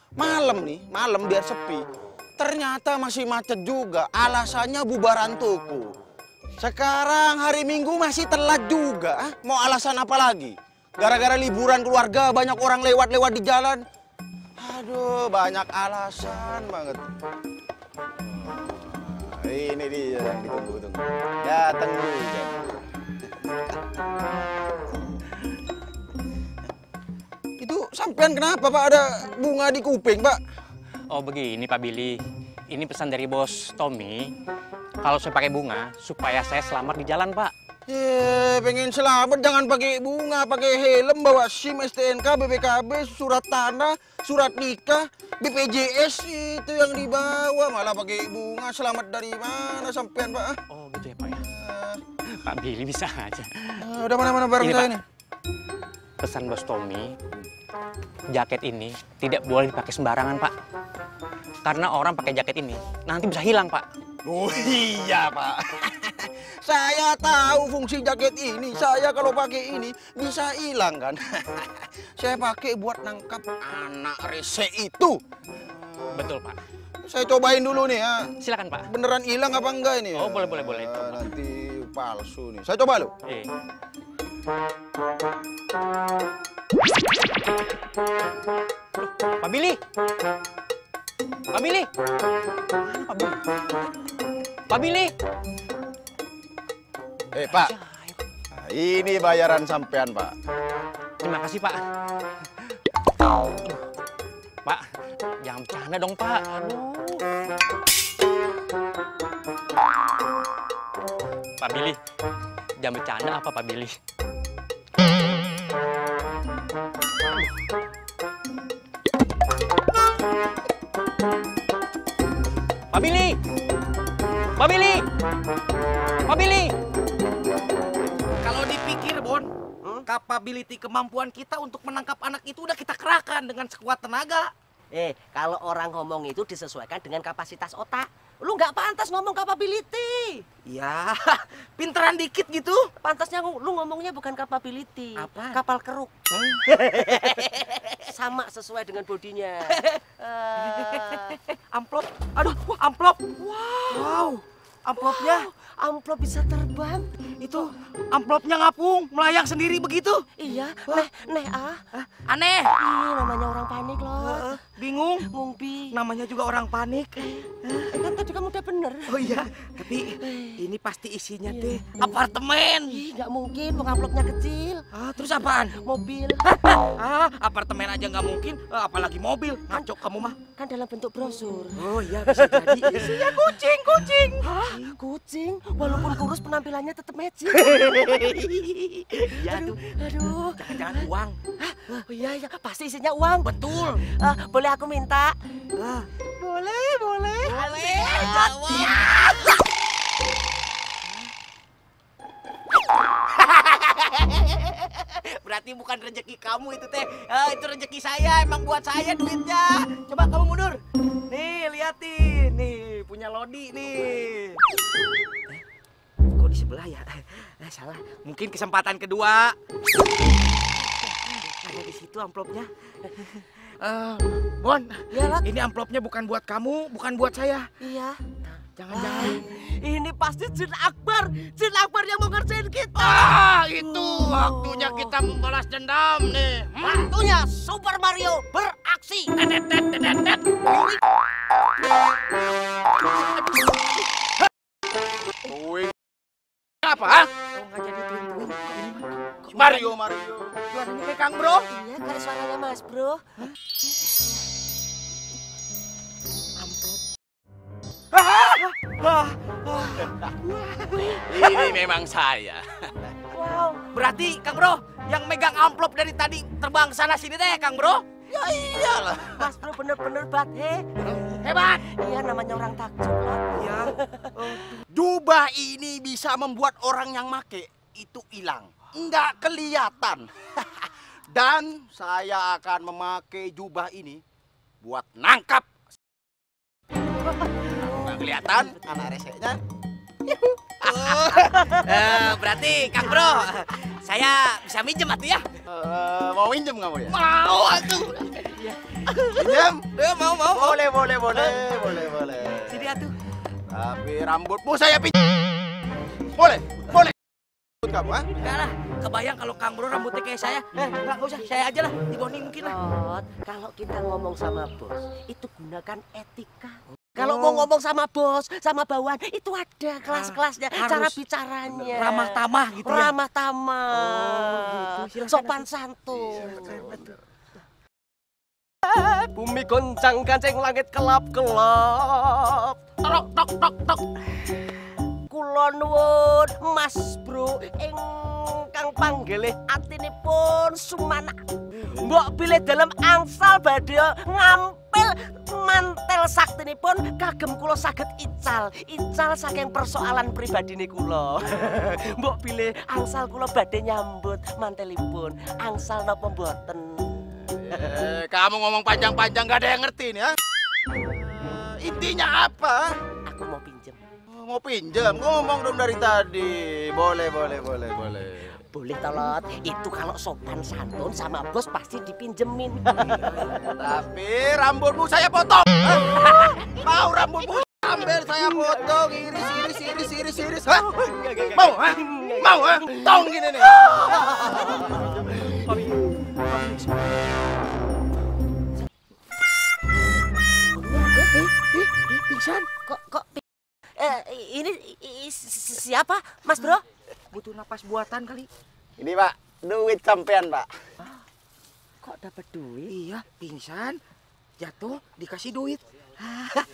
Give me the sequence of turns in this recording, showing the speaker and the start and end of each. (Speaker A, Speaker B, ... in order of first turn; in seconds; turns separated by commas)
Speaker A: 0.2-1.8, Speaker A: 2.4-5.8, Speaker A: 6.6-13.8, Speaker A: 14.6-17.1, Speaker A: 18.2-22.6, Speaker A: 27.6-30.4, Speaker B: 31.1-32.2, Speaker B: 32.7-34.3, Speaker B: 35.0-37.5, Speaker A: 37.9-50.6, Speaker B: 50.7-51.4, Speaker A: 51.4-52.0, Speaker B: 52.3-53.8, Speaker A: 53.8-55.0, Speaker B: 54.6-54.9, Speaker B: 56.2-57.1, Speaker B: 58.3-60.5, Speaker B: 61.6-63.9, Speaker A: 64.2-76.2, Speaker B: 76.1-76.6, Speaker A: 77.0-78.2, Speaker B: 78.4-78.9, Speaker A: 78.9-83.1, Speaker B: 80.2-81.2, Speaker B: 89.0-89.8, Speaker B: 91.5-91.9, Speaker B: 92.8-93.4, Speaker B: 94.7-95.1, Speaker A: 97.3-97.7, Speaker A: 98.6-100.3, Speaker B: 101.2-101.8, Speaker B: 105.4-106.5, Speaker C: 106.6-107.2, Speaker B: 111.6-112.0, Speaker B: 112.8-114.0, Speaker B: 122.9-123.4, Speaker B: 124.6-125.0, Speaker B: 126.3-126.7, Speaker C: 128.4-129.5, Speaker C: 130.1-134.5, Speaker D: 134.9-139.5, Speaker C: 139.4-140.1, Speaker C: 140.7-142.9, Speaker D: 143.0-146.2, Speaker C: 145.2-145.6, Speaker C: 146.4-147.6, Speaker D: 146.7-151.4, Speaker C: 150.6-155.5, Speaker D: 153.6-154.2, Speaker D: 155.0-157.6, Speaker C: 157.4-160.3, Speaker D: 160.4-161.8, Speaker C: 161.9-162.7, Speaker D: 162.8-164.6, Speaker C: 164.2-165.3, Speaker D: 165.3-165.9, Speaker C: 165.9-167.4, Speaker D: 167.7-169.4, Speaker C: 169.1-173.0, Speaker D: 170.2-170.5, Speaker D: 171.5-171.8, Speaker D: 172.9-174.8, Speaker C: 174.9-175.8, Speaker D: 175.8-176.4, Speaker C: 176.7-180.4, Speaker D: 180.5-195.3, Speaker C: 181.8-184.9, Speaker C: 187.6-188.4, Speaker C: 189.3-189.8, Speaker C: 190.6-191.3, Speaker C: 193.4-194.0, Speaker D: 196.6-199.1, Speaker C: 197.4-199.4, Speaker C: 203.4-204.3, Speaker C: 205.4-214.6, Speaker C: 216.4-217.0, Speaker C: 217.7-219.6, Speaker C: 221.6-222.7, Speaker D: 222.1-222.5, Speaker C: 223.8-227.7, Speaker D: 225.1-225.5, Speaker D: 227.8-228.2, Speaker C: 228.8-229.5, Speaker D: 228.9-235.2, Speaker C: 232.9-237.1, Speaker D: 236.8-239.3, Speaker C: 239.3-241.0, Speaker C: 243.1-243.9, Speaker A: 245.4-245.9, Speaker C: 246.8-249.9, Speaker A: 249.5-250.6, Speaker C: 250.7-251.7, Speaker D: 251.7-253.3, Speaker C: 256.6-257.0, Speaker C: 258.1-261.5, Speaker A: 261.3-262.7, Speaker D: 263.3-263.8, Speaker C: 263.8-268.0, Speaker A: 268.3-269.5, Speaker D: 269.3-271.0, Speaker C: 271.1-271.8, Speaker D: 271.8-273.7, Speaker C: 273.5-274.8, Speaker A: 274.9-284.2, Speaker A: 284.8-285.8, Speaker A: 287.9-289.6, Speaker A: 290.8-291.6, Speaker C: 290.8-295.5, Speaker A: 295.7-297.2, Speaker C: 297.1-301.6, Speaker A: 299.4-299.9, Speaker A: 300.5-302.9, Speaker C: 302.7-303.1, Speaker A: 303.7-305.2, Speaker A: 306.4-307.1, Speaker A: 307.8-308.3, Speaker C: 308.4-312.8, Speaker D: 312.6-327.0, Speaker C: 317.2-317.7, Speaker C: 320.1-321.2, Speaker C: 321.7-323.1, Speaker C: 323.9-325.7, Speaker A: 326.2-326.8, Speaker C: 326.5-327.0, Speaker D: 328.9-334.0, Speaker D: 335.3-357.1, Speaker A: 357.6-360.3, Speaker A: 361.8-362.9, Speaker D: 363.3-364.0, Speaker A: 364.3-368.6, Speaker D: 368.7-373.5, Speaker A: 373.7-380.9, Speaker C: 376.1-376.4, Speaker C: 381.1-382.0, Speaker D: 381.2-381.6, Speaker A: 381.6-383.9, Speaker D: 382.1-382.8, Speaker C: 383.8-387.0, Speaker D: 383.9-385.1, Speaker D: 390.8-393.4, Speaker D: 394.0-396.8, Speaker C: 397.3-398.5, Speaker A: 399.0-400.7, Speaker D: 402.0-402.9, Speaker C: 402.9-404.0, Speaker C: 404.6-405.8